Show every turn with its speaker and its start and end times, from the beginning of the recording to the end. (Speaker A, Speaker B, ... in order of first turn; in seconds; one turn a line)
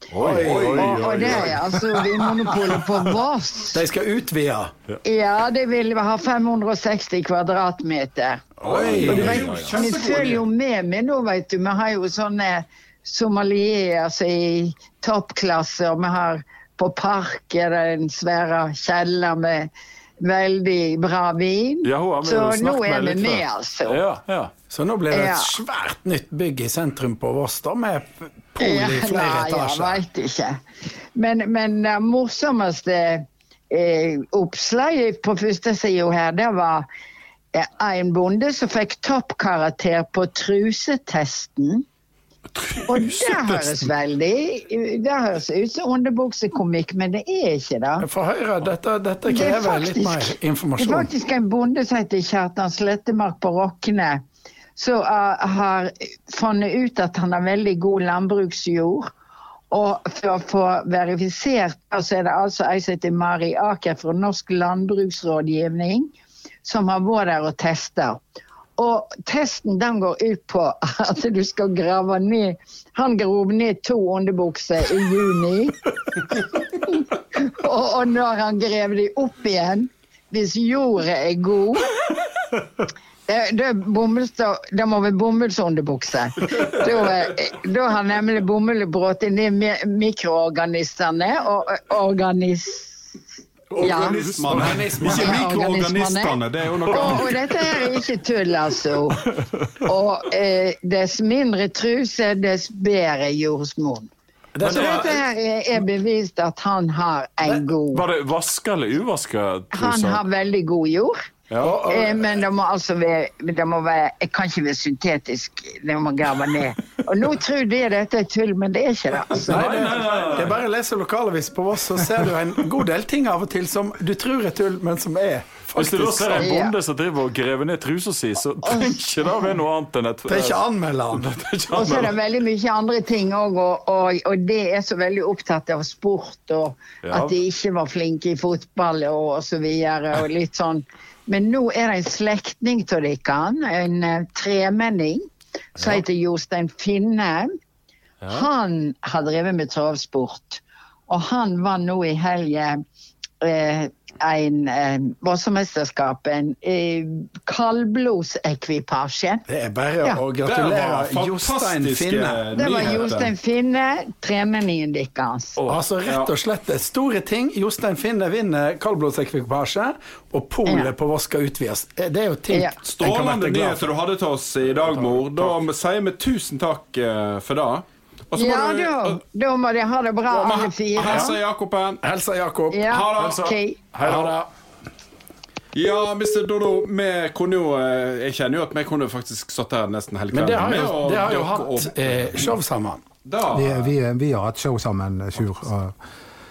Speaker A: 0.1-1.0
Speaker B: 0.2-1.4
Speaker C: 0.3-1.6
Speaker D: 0.9-3.8
Speaker B: 3.7-4.7
Speaker D: 5.0-8.5
Speaker B: 8.6-9.5
Speaker C: 8.6-10.4
Speaker A: 9.0-9.8
Speaker D: 9.1-19.7
Speaker D: 20.2-24.0
Speaker A: 21.8-24.5
Speaker B: 24.7-30.0
Speaker D: 25.1-25.5
Speaker D: 28.6-30.6
Speaker D: 31.2-36.9
Speaker D: 37.5-41.8
Speaker A: 42.5-43.8
Speaker D: 42.9-48.1
Speaker B: 48.0-51.1
Speaker D: 49.3-54.2
Speaker D: 54.8-59.1
Speaker D: 59.7-66.1
Speaker D: 66.6-68.2
Speaker D: 68.8-82.0
Speaker D: 83.3-92.9
Speaker B: 93.7-95.6
Speaker C: 93.8-97.8
Speaker D: 93.8-99.3
Speaker D: 99.8-104.1
Speaker B: 104.5-105.2
Speaker D: 104.6-108.1
Speaker A: 107.9-110.2
Speaker D: 109.7-111.2
Speaker A: 111.5-111.8
Speaker B: 111.6-112.4
Speaker D: 111.9-119.7
Speaker A: 119.5-120.6
Speaker B: 119.5-126.5
Speaker A: 125.8-130.6
Speaker D: 126.4-126.8
Speaker D: 128.6-129.4
Speaker B: 130.3-132.1
Speaker A: 131.1-132.1
Speaker D: 131.7-145.3
Speaker A: 137.0-137.4
Speaker D: 145.8-147.5
Speaker A: 145.8-146.0
Speaker D: 148.3-152.8
Speaker D: 153.4-159.4
Speaker B: 159.5-162.9
Speaker C: 160.4-163.3
Speaker D: 162.6-165.6
Speaker B: 165.7-173.9
Speaker C: 166.1-166.3
Speaker C: 172.8-179.2
Speaker D: 178.3-181.4
Speaker C: 180.3-182.0
Speaker B: 181.1-181.3
Speaker B: 182.0-182.9
Speaker D: 182.7-183.8
Speaker C: 182.9-183.5
Speaker A: 183.2-184.4
Speaker B: 184.0-184.4
Speaker C: 184.0-184.3
Speaker C: 185.7-192.5
Speaker B: 190.3-193.0
Speaker C: 193.2-193.9
Speaker E: 193.5-196.0